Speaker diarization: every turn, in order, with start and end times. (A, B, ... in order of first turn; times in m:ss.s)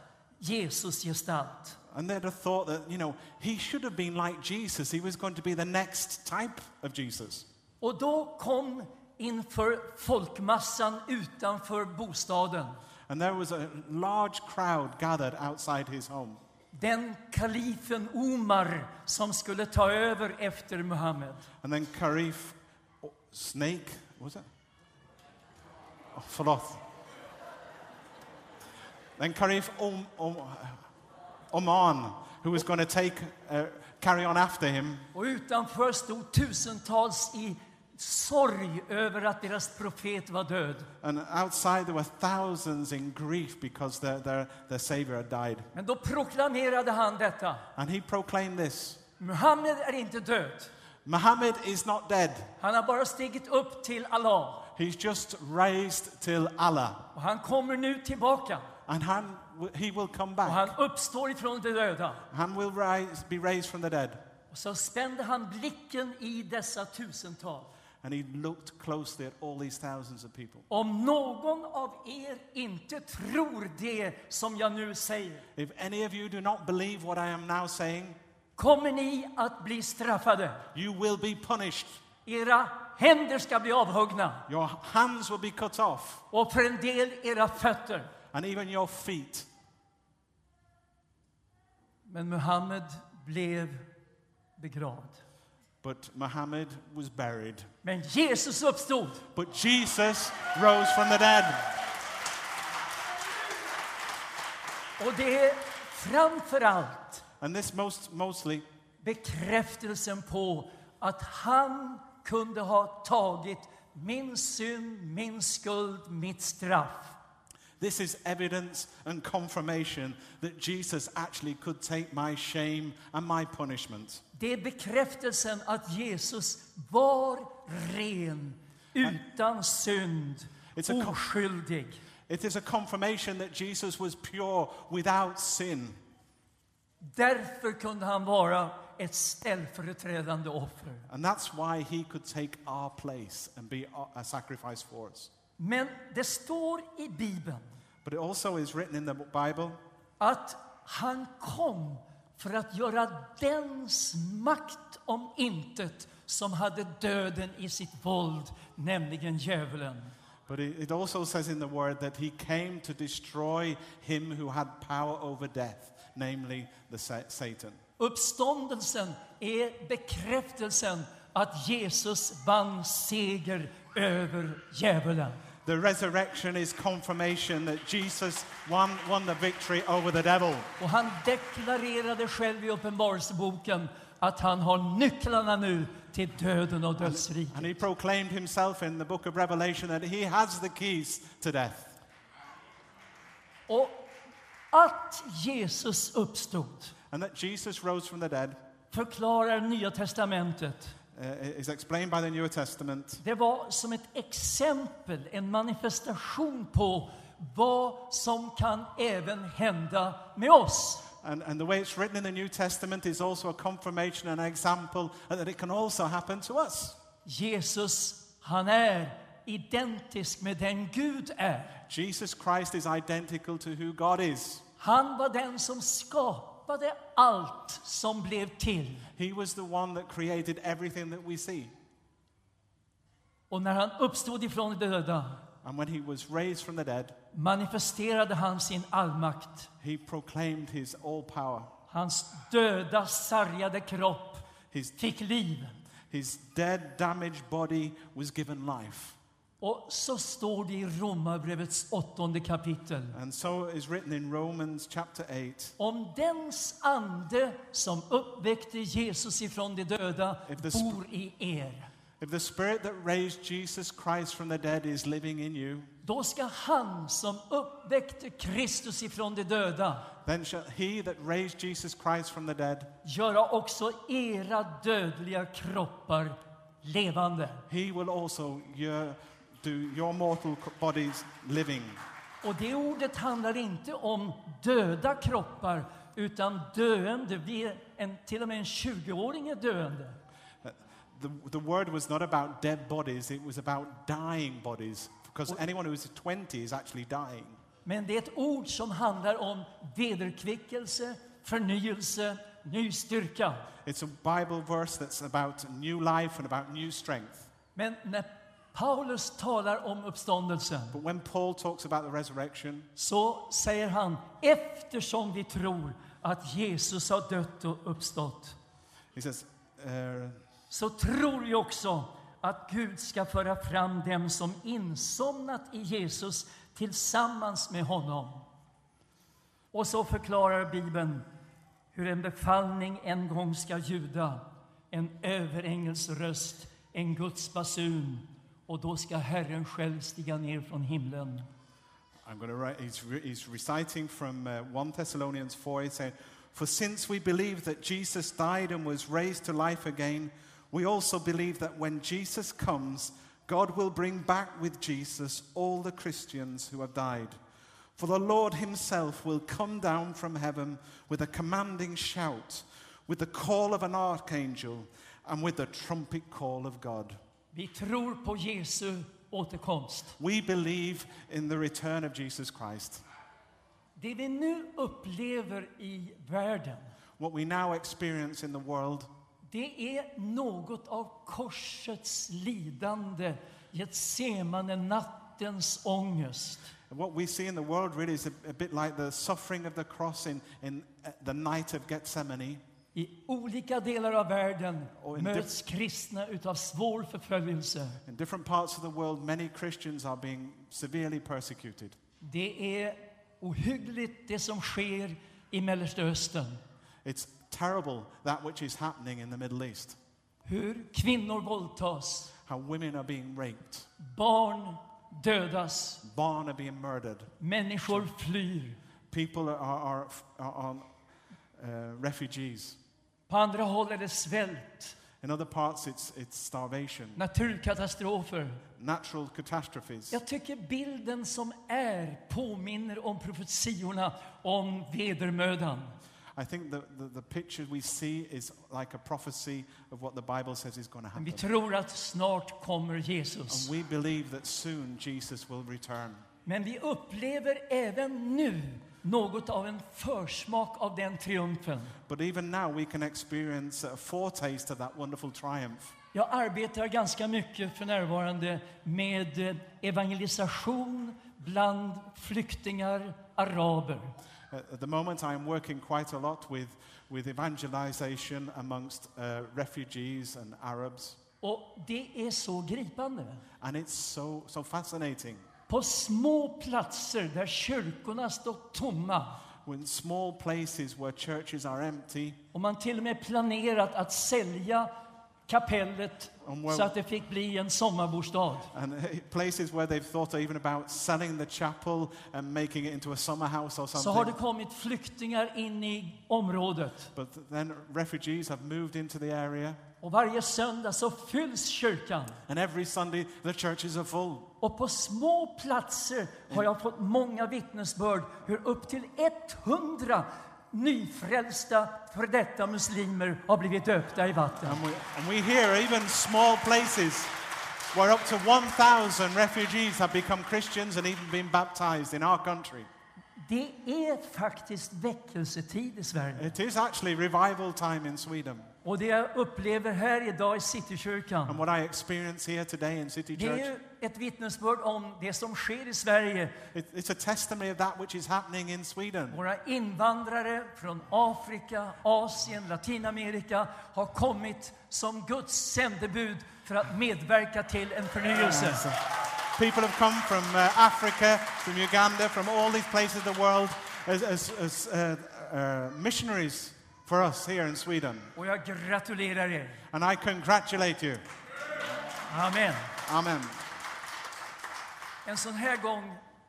0:00.4-0:01.8 A
0:01.9-0:07.4 B
0:07.8-0:12.8 A
0:13.1-0:16.4 B
0:16.7-0:21.4 A
0:21.6-0:24.4 B
0:26.1-0:26.8 B
0:29.2-0:30.8 B
0:31.5-0:35.0 B
0:35.1-0:40.9 A
0:41.0-0:45.7 B
0:45.7-0:47.6 A
0:47.8-0:49.0 B
0:49.2-0:50.7 A
0:51.0-0:52.5 B
0:52.6-0:54.7 A
0:54.8-0:57.0 B
0:57.1-0:58.7 A
0:58.9-1:00.8 B
1:00.4-1:02.2 A
1:02.3-1:04.2 B
1:04.5-1:07.7 A
1:08.0-1:10.6 B
1:10.7-1:15.4 A
1:15.6-1:18.2 B
1:18.6-1:20.6 A
1:20.7-1:22.0 B
1:22.2-1:24.4 A
1:24.5-1:26.2 B
1:26.3-1:28.1 A
1:28.3-1:29.5 B
1:32.1-1:33.9 A
1:34.6-1:35.2 A
1:35.8-1:37.7 B
1:37.8-1:39.2 A
1:39.3-1:41.7 B
1:45.0-1:47.2 A
1:47.4-1:48.6 B
1:49.0-1:57.2 A
1:57.8-2:04.2 B
2:04.4-2:12.0 A
2:10.7-2:11.2 B
2:12.3-2:16.0 B
2:17.0-2:21.1 A
2:21.1-2:25.3 B
2:25.6-2:27.7 A
2:28.0-2:29.8 B
2:30.2-2:40.1 A
2:40.5-2:47.8 B
2:48.0-2:55.4 A
2:55.6-3:00.7 B
3:00.8-3:07.7 A
3:07.0-3:12.0 B
3:13.7-3:14.1 A
3:14.7-3:16.9 A
3:17.1-3:18.6 B
3:18.9-3:20.9 A
3:21.1-3:23.2 B
3:23.2-3:31.1 A
3:31.2-3:37.0 B
3:37.2-3:41.8 A
3:41.9-3:44.6 B
3:44.8-3:49.0 A
3:49.2-3:51.7 B
3:53.5-3:55.4 A
3:55.6-3:57.2 B
3:57.3-3:59.7 A
3:59.8-4:01.7 B
4:01.9-4:04.4 A
4:05.0-4:05.8 A
4:06.1-4:09.2 B
4:09.6-4:13.2 A
4:13.1-4:15.8 B
4:15.8-4:21.9 A
4:20.5-4:21.0 B
4:22.2-4:25.9 B
4:26.0-4:30.1 A
4:30.2-4:32.9 B
4:33.0-4:37.6 A
4:37.7-4:42.0 B
4:42.4-4:50.2 A
4:50.6-4:57.6 B
4:57.8-5:03.7 A
5:03.8-5:07.5 B
5:07.7-5:11.0 A
5:10.9-5:12.9 B
5:13.0-5:18.6 A
5:19.1-5:20.4 B
5:20.7-5:28.4 A
5:29.7-5:31.2 A
5:31.9-5:41.5 A
5:42.2-5:57.4 B
5:58.0-6:07.2 B
6:07.5-6:10.1 A
6:10.2-6:13.0 B
6:14.0-6:16.9 A
6:17.2-6:19.1 B
6:19.5-6:26.7 A
6:26.9-6:32.6 B
6:32.9-6:38.0 A
6:35.0-6:35.5 B
6:38.1-6:42.0 B
6:42.2-6:46.6 A
6:47.0-6:50.0 B
6:50.4-6:52.3 A
6:52.4-6:53.9 B
6:54.0-6:56.0 A
6:56.0-6:57.3 B
6:57.4-6:58.8 A
6:59.1-7:00.9 B
7:01.6-7:02.8 B
7:03.3-7:04.9 A
7:05.2-7:07.2 B
7:07.2-7:08.6 A
7:08.8-7:10.2 B
7:10.1-7:15.9 A
7:16.4-7:21.4 B
7:21.1-7:23.7 A
7:23.5-7:26.2 B
7:26.4-7:32.0 A
7:32.1-7:35.9 B
7:36.1-7:44.1 A
7:44.5-7:51.2 B
7:51.4-7:53.4 A
7:53.6-7:55.4 B
7:55.7-7:59.4 A
7:59.6-8:02.4 B
8:02.5-8:04.9 A
8:05.5-8:08.7 A
8:06.4-8:06.9 B
8:08.7-8:14.3 B
8:13.9-8:17.1 A
8:17.1-8:19.8 B
8:20.0-8:22.4 A
8:22.5-8:24.5 B
8:24.6-8:34.8 A
8:34.6-8:37.3 B
8:37.9-8:42.9 B
8:43.4-8:46.4 A
8:46.4-8:48.7 B
8:48.8-8:51.6 A
8:51.5-8:53.7 B
8:53.3-8:56.6 A
8:56.7-8:59.4 B
8:59.3-9:08.8 A
9:08.3-9:09.0 B
9:09.6-9:18.3 B
9:18.3-9:19.8 A
9:19.9-9:21.2 B
9:22.3-9:22.9 A
9:23.0-9:23.5 B
9:25.2-9:26.2 A